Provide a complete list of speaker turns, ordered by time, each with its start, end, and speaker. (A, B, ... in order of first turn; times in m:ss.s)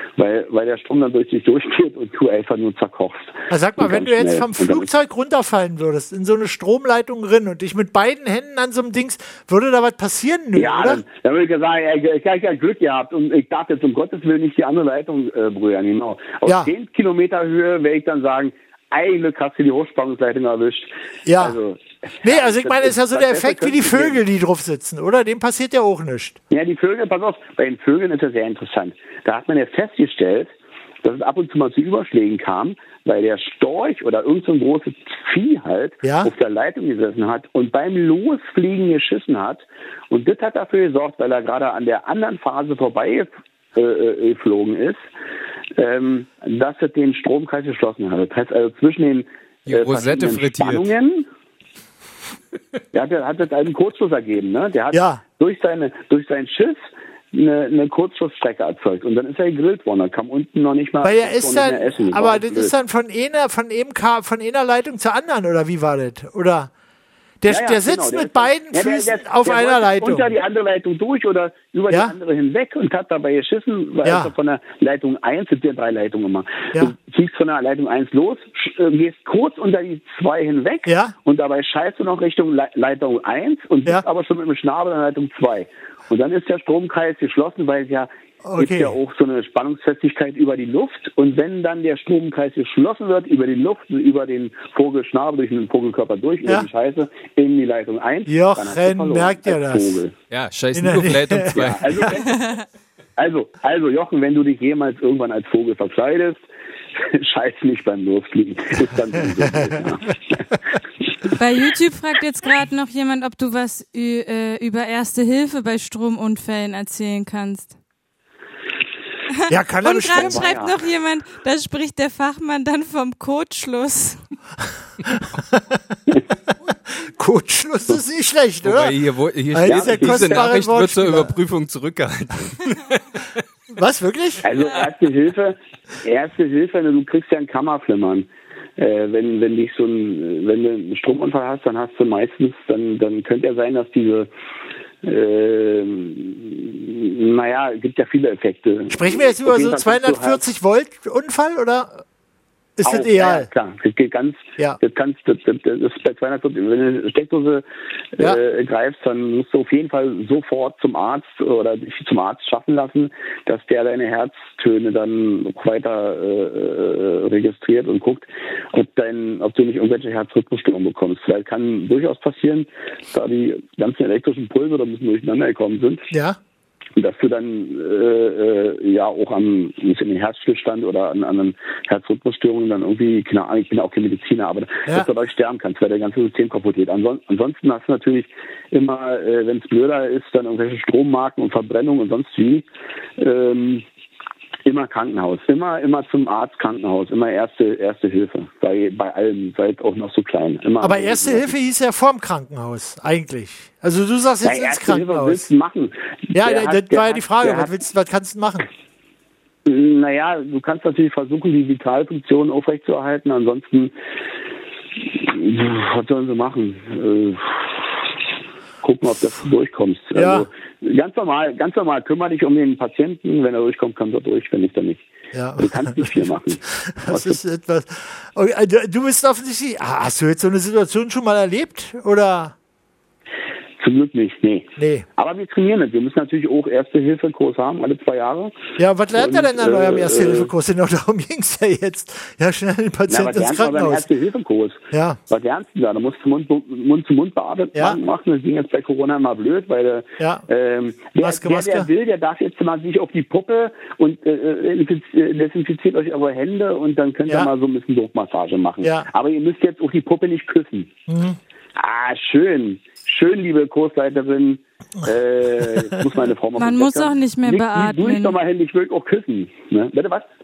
0:00.2-0:04.9 A
0:03.5-0:11.0 B
0:10.6-0:24.2 A
0:16.5-0:16.7 B
0:21.3-0:21.6 B
0:22.2-0:26.4 B
0:26.5-0:30.5 A
0:31.0-0:45.0 A
0:36.0-0:36.3 B
0:45.8-0:51.3 A
0:49.7-0:50.9 C
0:52.9-0:56.8 A
0:54.9-0:55.2 B
0:57.3-1:02.7 A
1:01.0-1:06.7 B
1:07.4-1:10.3 B
1:07.5-1:40.1 A
1:14.0-1:14.3 B
1:20.9-1:21.1 B
1:28.4-1:29.0 B
1:38.3-1:40.0 B
1:40.3-1:42.1 C
1:40.7-1:42.1 B
1:41.5-1:42.4 A
1:42.3-1:42.6 D
1:43.2-1:46.4 A
1:47.0-1:50.4 A
1:49.4-1:49.7 B
1:51.4-1:57.8 D
1:59.5-2:00.6 B
1:59.8-2:04.2 D
2:00.2-2:00.7 A
2:05.1-2:05.8 B
2:07.0-2:09.0 B
2:08.6-2:13.0 C
2:09.5-2:11.4 B
2:09.7-2:10.5 A
2:13.8-2:14.5 B
2:14.4-2:24.3 A
2:25.0-2:30.4 A
2:28.9-2:32.0 B
2:32.8-2:33.5 B
2:32.8-2:56.0 A
2:56.1-2:56.4 B
2:57.0-3:12.7 A
3:13.2-3:13.8 A
3:14.6-3:21.5 A
3:20.8-3:25.5 B
3:24.4-3:27.7 A
3:26.3-3:28.6 B
3:29.7-3:33.9 A
3:35.2-3:38.0 A
3:38.8-3:45.0 A
3:40.2-3:40.5 B
3:45.3-3:52.6 B
3:45.6-3:47.4 A
3:53.8-3:58.5 A
3:54.8-3:55.1 B
3:58.8-4:04.1 B
3:59.2-4:00.5 A
4:03.1-4:20.9 A
4:04.9-4:05.2 B
4:11.2-4:11.9 B
4:18.8-4:19.1 B
4:21.1-4:21.4 B
4:21.8-4:30.3 A
4:25.7-4:25.9 B
4:26.6-4:28.4 D